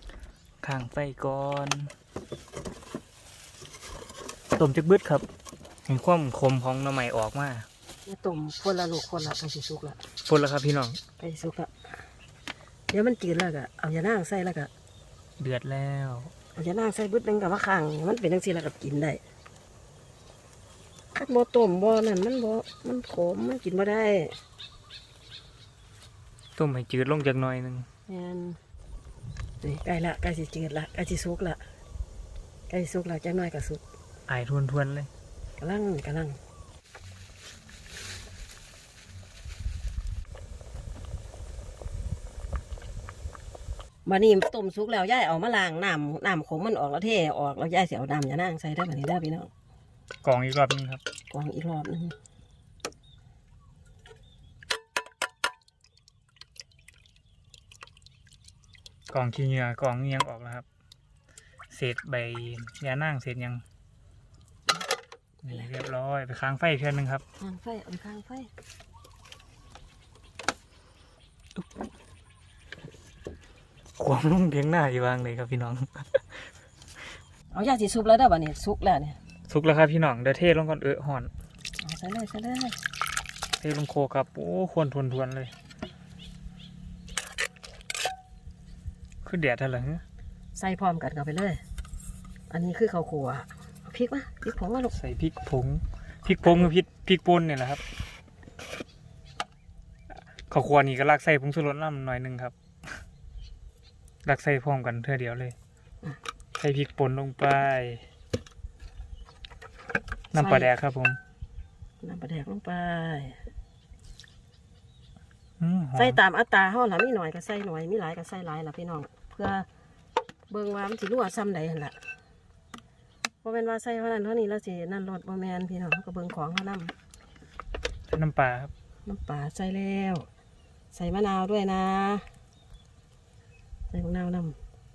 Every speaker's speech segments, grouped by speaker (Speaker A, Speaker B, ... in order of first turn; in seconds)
Speaker A: 0.6-1.9, 4.6-5.3, 5.9-7.7, 10.2-11.0, 15.4-16.3, 26.6-27.9, 34.3-35.1, 50.2-51.0, 59.1-60.6, 61.7-63.6, 65.4-67.2, 74.0-76.5, 79.5-81.3, 83.6-85.5, 89.2-90.0, 94.9-97.8, 100.5-102.9, 104.2-105.5, 106.6-108.0, 110.3-111.2, 115.6-116.2, 128.1-128.7
Speaker B: 8.1-10.0, 11.2-11.7, 12.9-14.7, 16.6-19.2, 21.1-24.4, 28.1-28.6, 29.6-31.6, 32.7-33.8, 35.6-36.4, 44.1-49.5, 51.3-52.1, 67.4-68.5, 77.5-79.2, 81.8-82.8, 90.6-91.6, 92.5-95.0, 110.3-110.7, 112.0-113.4, 116.0-119.7, 120.5-122.0, 123.4-126.9, 129.1-130.3, 130.9-132.3, 133.9-134.6